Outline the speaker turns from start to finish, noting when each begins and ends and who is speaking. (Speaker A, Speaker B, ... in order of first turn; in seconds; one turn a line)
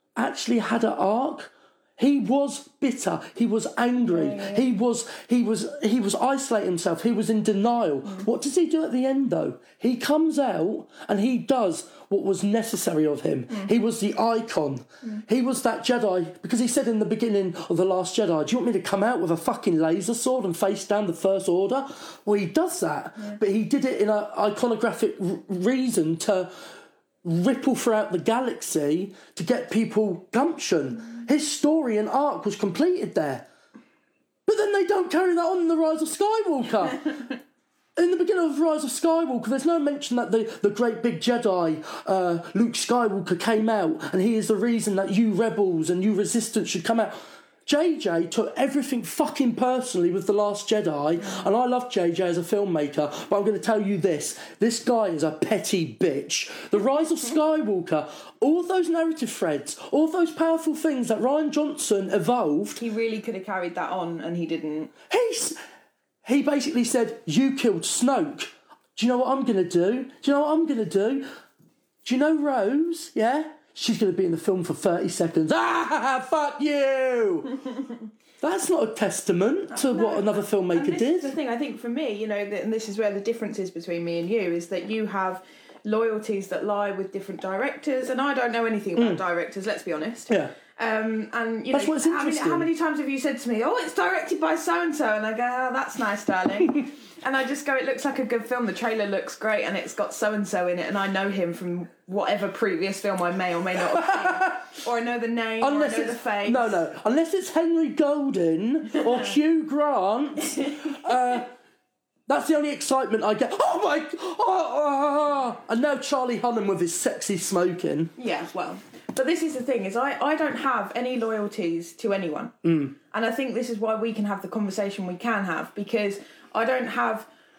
Speaker A: 0.2-26.5
Speaker B: 4.0-4.6
Speaker A: 27.2-33.5
Speaker A: 34.5-37.1
Speaker A: 38.0-62.8
Speaker B: 62.8-64.9
Speaker A: 65.1-65.6
Speaker A: 66.2-71.3
Speaker A: 72.0-77.6
Speaker A: 78.4-81.3
Speaker B: 79.7-106.8
Speaker A: 89.0-89.2
Speaker A: 90.3-90.5
Speaker A: 91.7-92.7
Speaker A: 103.9-104.8
Speaker A: 105.6-111.5
Speaker B: 108.9-109.3
Speaker A: 112.3-118.1
Speaker B: 118.2-127.3
Speaker A: 122.6-123.0